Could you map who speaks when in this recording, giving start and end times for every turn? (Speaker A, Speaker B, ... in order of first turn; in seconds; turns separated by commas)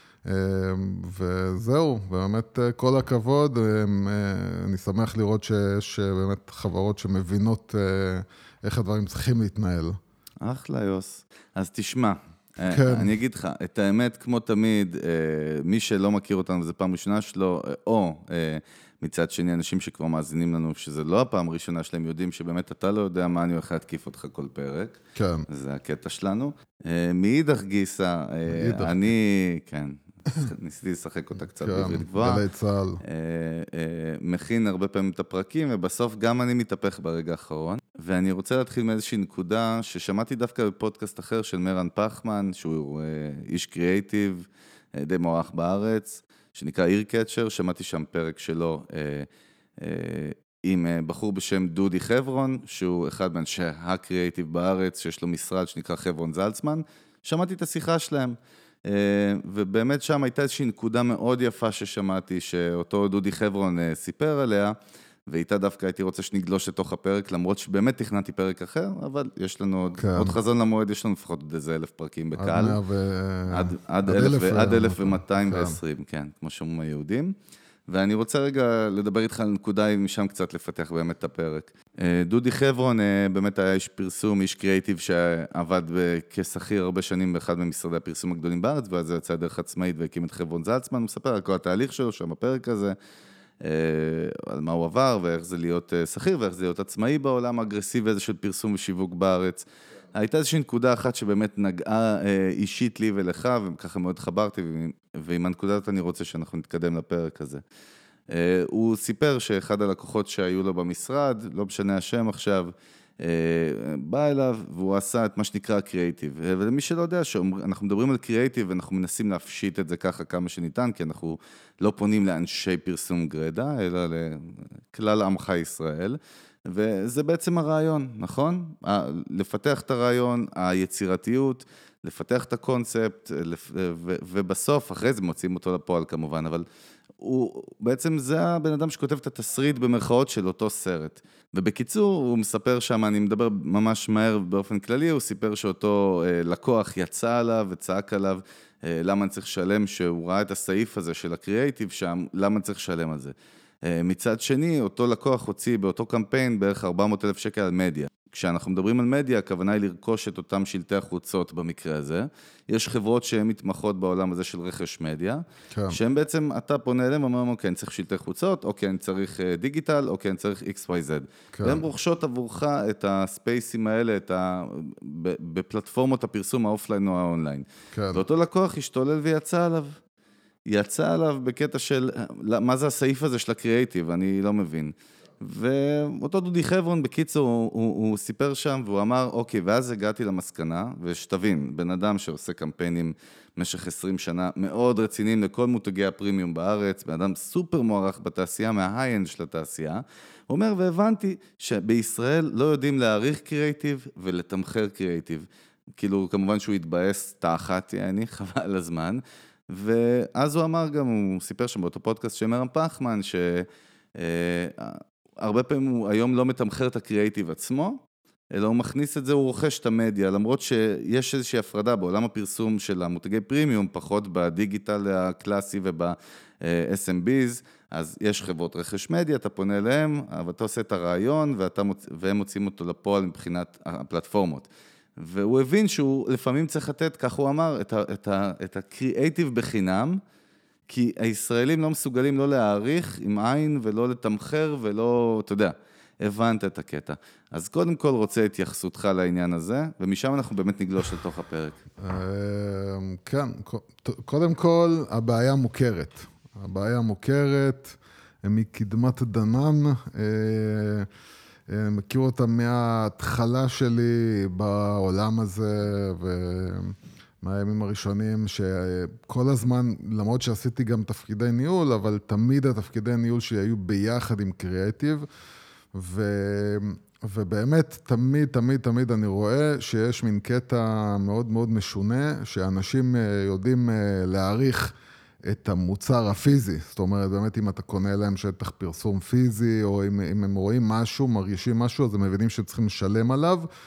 Speaker A: 0.2-10.0, Speaker B: 10.4-25.0, Speaker A: 12.7-13.1, Speaker A: 25.1-25.5, Speaker B: 25.5-32.4, Speaker A: 28.5-29.1, Speaker A: 31.6-33.0, Speaker B: 33.0-49.3, Speaker B: 49.8-64.8, Speaker B: 65.3-72.8, Speaker A: 70.0-70.4, Speaker A: 72.4-75.8, Speaker B: 73.5-77.3, Speaker B: 77.9-93.0, Speaker B: 93.6-107.6, Speaker B: 108.3-136.7, Speaker B: 137.2-153.3, Speaker B: 153.8-179.9, Speaker A: 165.7-166.0, Speaker A: 171.5-171.8, Speaker A: 177.9-178.2, Speaker B: 180.7-205.5, Speaker B: 206.0-213.7, Speaker B: 214.2-218.0, Speaker B: 218.5-240.2, Speaker B: 240.9-251.8, Speaker A: 252.0-261.1, Speaker A: 261.7-275.3, Speaker A: 275.9-284.9, Speaker A: 285.5-293.7